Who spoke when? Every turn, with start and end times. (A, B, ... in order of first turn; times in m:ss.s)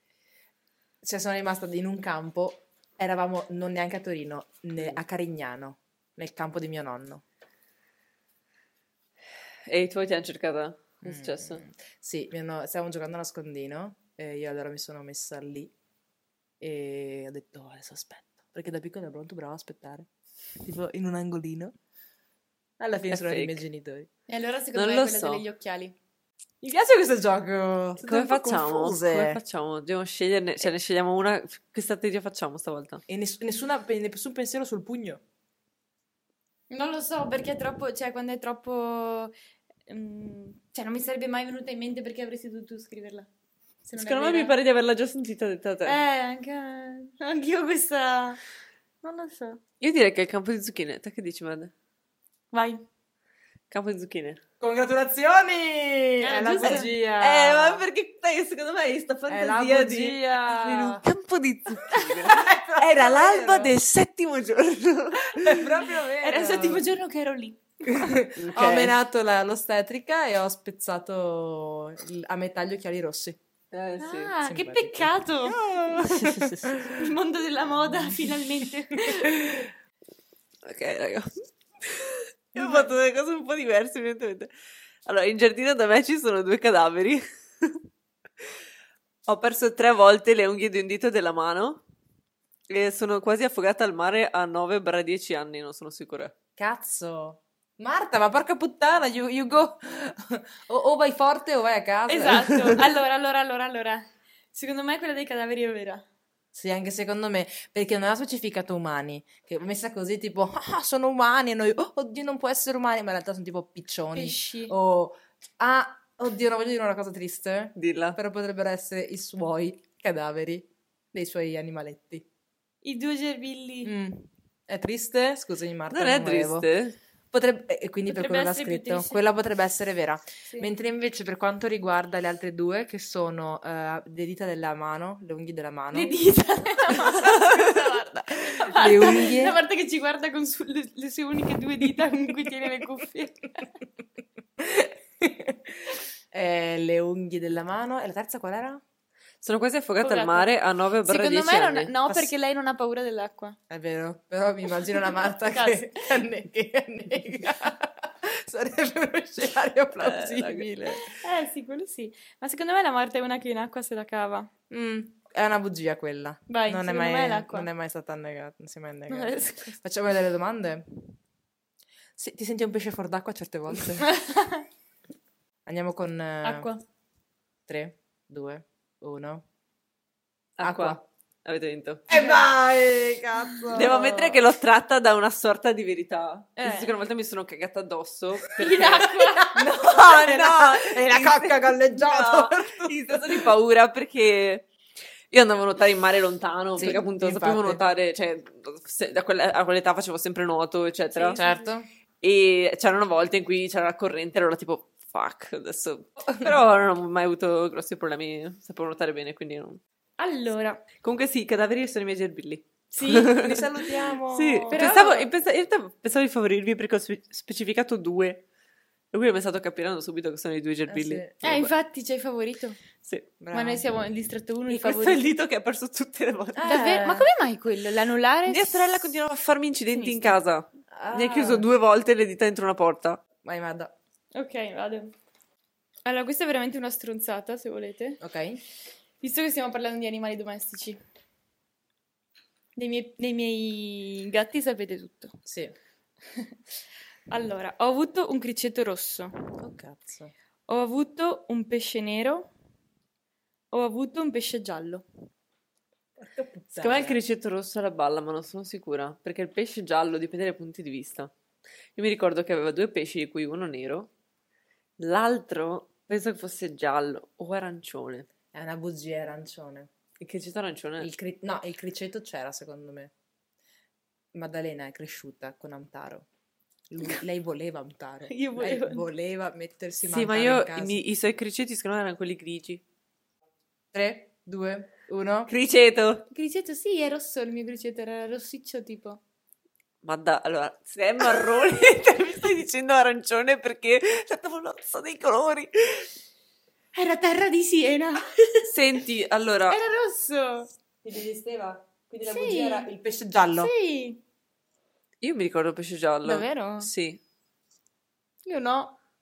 0:01.0-0:07.2 A
0:09.7-0:11.6 B
0:11.0-0:15.7 A
0:16.6-0:20.1 A
0:20.6-0:21.7 A
0:22.8-0:24.1 A
0:23.1-0:23.6 B
0:24.3-0:26.0 C
0:24.7-0:25.4 B
0:26.6-0:29.4 A
0:28.0-0:33.0 B
0:33.1-0:35.2 A
0:36.7-0:39.3 C
0:39.9-0:43.3 C
0:43.8-0:44.6 C
0:44.0-0:46.0 B
0:45.8-0:48.4 C
0:49.0-0:49.6 C
0:49.8-0:51.7 B
0:52.5-0:52.8 C
0:53.7-0:54.4 B
0:54.6-0:57.9 A
0:56.2-0:56.9 C
0:56.6-1:05.7 B
0:59.3-1:01.0 A
1:00.3-1:00.8 C
1:01.9-1:02.3 C
1:02.2-1:03.8 A
1:05.3-1:06.8 A
1:06.2-1:08.0 C
1:07.8-1:13.4 A
1:08.4-1:09.0 B
1:13.7-1:14.3 B
1:14.0-1:15.7 C
1:14.4-1:17.0 A
1:15.7-1:16.7 B
1:16.9-1:19.7 C
1:19.2-1:19.5 A
1:20.6-1:24.5 B
1:22.6-1:22.9 A
1:25.0-1:27.8 B
1:29.3-1:31.8 B
1:32.7-1:36.3 B
1:36.6-1:42.7 A
1:42.1-1:46.0 C
1:46.5-2:02.3 A
1:54.1-1:54.8 C
1:57.8-1:58.2 B
2:02.8-2:03.9 C
2:03.8-2:06.7 A
2:05.9-2:07.0 B
2:07.3-2:16.1 A
2:08.1-2:09.2 C
2:15.9-2:23.7 C
2:16.9-2:17.6 A
2:18.5-2:19.6 A
2:24.6-2:28.8 A
2:29.4-2:31.9 B
2:30.0-2:30.5 C
2:31.0-2:33.6 C
2:32.0-2:32.3 A
2:33.7-2:41.0 A
2:35.5-2:36.1 C
2:40.0-2:41.0 B
2:41.0-2:44.5 C
2:44.7-2:51.2 A
2:46.5-2:47.7 C
2:49.1-2:49.8 C
2:52.2-2:54.1 A
2:54.0-2:54.6 C
2:55.6-2:56.7 A
2:56.4-2:56.8 C
2:57.7-2:59.4 A
3:00.6-3:02.1 B
3:00.6-3:01.0 A
3:02.1-3:04.4 A
3:02.1-3:02.4 C
3:03.7-3:09.1 B
3:06.6-3:06.9 C
3:08.5-3:09.7 C
3:08.8-3:13.5 A
3:09.8-3:14.6 B
3:15.3-3:21.4 B
3:16.8-3:17.8 A
3:21.1-3:21.6 C
3:21.3-3:21.9 A
3:22.2-3:29.8 B
3:30.2-3:30.8 C
3:31.0-3:38.4 B
3:32.9-3:33.5 C
3:33.1-3:34.9 A
3:34.6-3:35.3 C
3:39.1-3:41.7 B
3:40.9-3:41.4 A
3:41.4-3:42.8 C
3:43.4-3:43.8 A
3:43.5-3:45.2 C
3:44.7-3:46.8 B
3:46.5-3:47.3 A
3:46.6-3:49.1 C
3:48.5-3:53.2 B
3:49.9-3:50.4 C
3:50.9-3:51.7 A
3:53.4-3:53.9 A
3:54.3-3:55.1 C
3:56.0-3:58.2 C
3:58.2-3:58.6 A
3:59.2-4:01.0 C
4:02.8-4:05.4 C
4:05.4-4:05.7 A
4:07.3-4:09.3 C
4:09.6-4:10.3 A
4:10.7-4:12.5 C
4:13.7-4:15.0 C
4:16.2-4:17.2 A
4:16.8-4:21.3 B
4:22.0-4:24.1 B
4:25.0-4:28.3 B
4:28.5-4:29.9 A
4:30.2-4:31.1 B
4:31.0-4:33.1 A
4:34.3-4:36.2 A
4:36.9-4:41.0 A
4:38.3-4:39.0 C
4:40.1-4:42.8 B
4:43.9-4:45.5 A
4:45.5-4:46.2 B
4:46.3-4:49.2 C
4:50.0-4:56.1 B
4:56.9-4:58.3 C
4:58.6-4:59.8 B
4:59.7-5:00.7 C
5:01.0-5:03.7 A
5:02.2-5:02.9 C
5:03.5-5:04.2 C
5:05.2-5:07.2 B
5:06.2-5:06.9 C
5:08.4-5:09.0 C